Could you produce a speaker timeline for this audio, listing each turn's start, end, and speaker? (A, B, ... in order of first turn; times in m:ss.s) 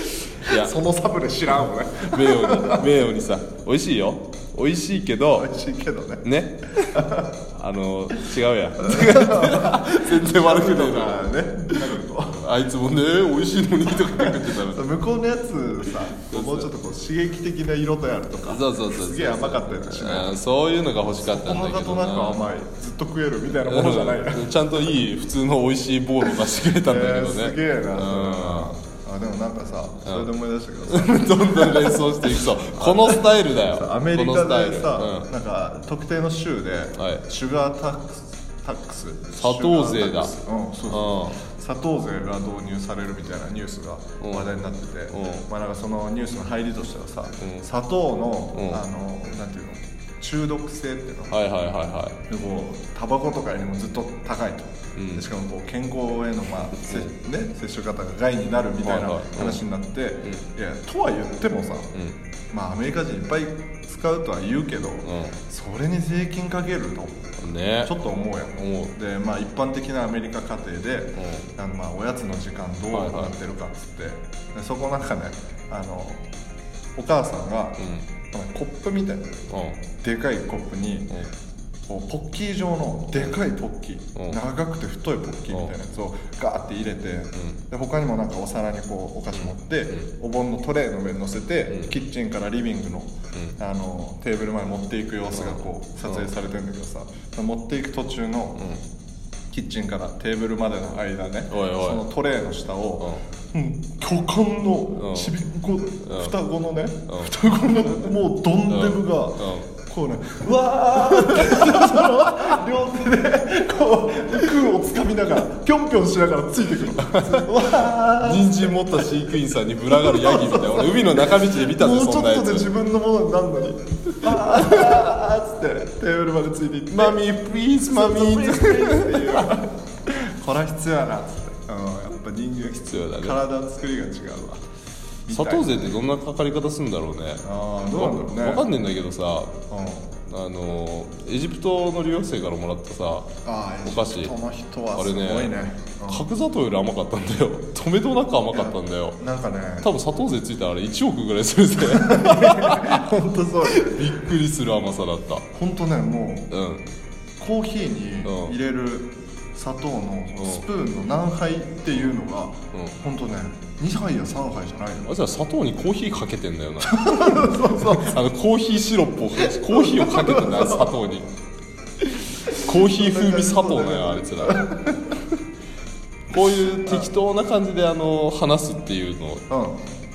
0:00.4-0:02.9 A
0:00.5-0:00.8 B
0:02.0-0:05.5 B
0:05.3-0:06.2 A
0:06.2-0:07.0 B
0:06.8-0:07.3 A
0:07.6-0:14.9 B
0:08.8-0:12.5 A
0:14.0-0:20.4 A
0:15.9-0:16.7 B
0:18.5-0:22.4 B
0:21.0-0:24.5 A
0:23.6-0:28.8 B
0:26.8-0:51.4 A
0:30.0-0:30.3 B
0:30.9-0:35.3 B
0:37.0-0:37.2 B
0:39.4-0:40.4 B
0:40.9-0:41.4 B
0:44.2-0:44.5 B
0:45.1-0:45.5 B
0:47.4-0:47.7 B
0:48.5-0:48.8 B
0:51.3-0:52.2 B
0:52.2-1:01.9 A
0:55.0-0:55.2 B
0:56.7-0:57.1 B
0:58.8-0:59.6 B
1:01.9-1:02.2 B
1:02.5-1:07.3 A
1:05.0-1:05.4 B
1:07.4-1:08.0 B
1:07.8-1:16.2 A
1:08.6-1:08.9 B
1:11.2-1:11.5 B
1:12.9-1:13.4 B
1:17.0-1:17.8 A
1:17.8-1:18.1 B
1:18.3-1:19.3 A
1:19.5-1:19.8 B
1:19.9-1:21.2 A
1:21.9-1:38.6 A
1:24.1-1:24.4 B
1:27.4-1:27.6 B
1:29.3-1:30.1 B
1:31.7-1:32.0 B
1:35.3-1:36.3 B
1:38.6-1:38.8 B
1:39.5-1:59.1 A
1:41.5-1:42.0 B
1:44.9-1:45.4 B
1:46.0-1:46.4 B
1:47.1-1:47.4 B
1:48.7-1:49.7 B
1:50.9-1:52.5 B
1:57.0-2:02.7 B
2:00.0-2:00.9 A
2:01.6-2:07.2 A
2:04.2-2:05.1 B
2:06.9-2:09.6 B
2:07.8-2:14.6 A
2:12.8-2:13.4 B
2:15.3-2:16.0 A
2:15.3-2:19.6 B
2:17.4-2:18.7 A
2:19.7-2:20.1 A
2:20.3-2:23.3 B
2:23.4-2:26.3 A
2:23.8-2:24.4 B
2:25.0-2:25.6 B
2:26.1-2:29.2 B
2:28.5-2:29.9 A
2:29.8-2:33.1 B
2:31.9-2:34.2 A
2:33.7-2:35.4 B
2:35.5-2:36.5 A
2:36.5-2:36.8 B
2:37.4-2:45.1 A
2:38.2-2:38.6 B
2:40.4-2:40.6 B
2:45.0-2:51.3 B
2:46.8-2:48.2 A
2:49.4-2:50.9 A
2:52.4-2:54.8 B
2:52.5-2:55.1 A
2:56.3-2:59.4 B
2:59.5-2:59.8 A